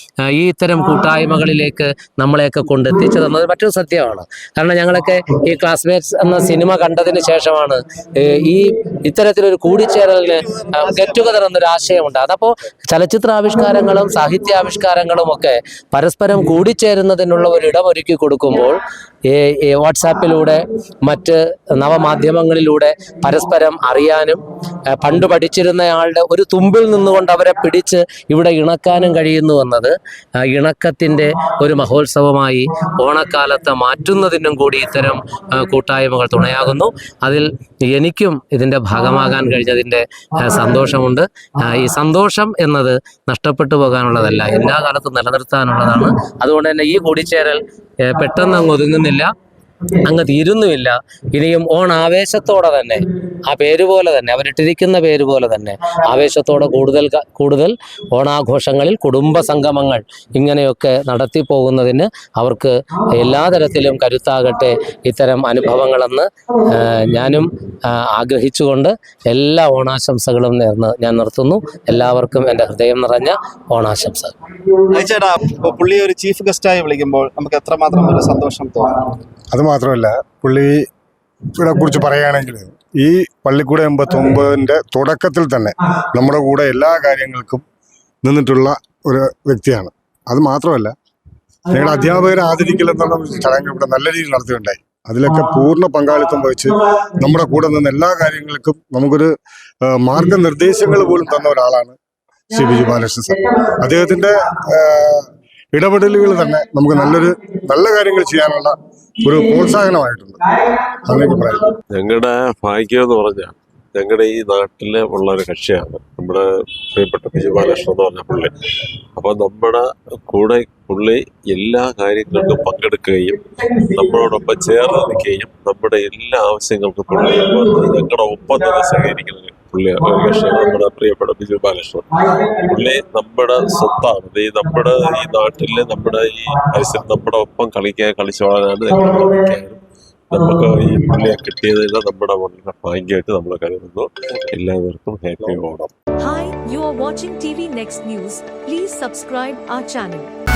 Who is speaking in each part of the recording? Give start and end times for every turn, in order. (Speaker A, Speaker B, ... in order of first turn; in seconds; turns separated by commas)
Speaker A: 0.2-49.3, Speaker B: 10.2-11.4, Speaker A: 49.9-74.3, Speaker B: 74.9-79.0, Speaker C: 79.5-80.8, Speaker C: 81.6-87.6, Speaker C: 88.2-90.9, Speaker C: 91.7-99.3, Speaker C: 99.8-102.0, Speaker C: 102.5-110.4, Speaker C: 111.1-111.7, Speaker D: 111.9-118.5, Speaker D: 119.2-139.8, Speaker D: 140.3-145.9, Speaker E: 146.2-150.3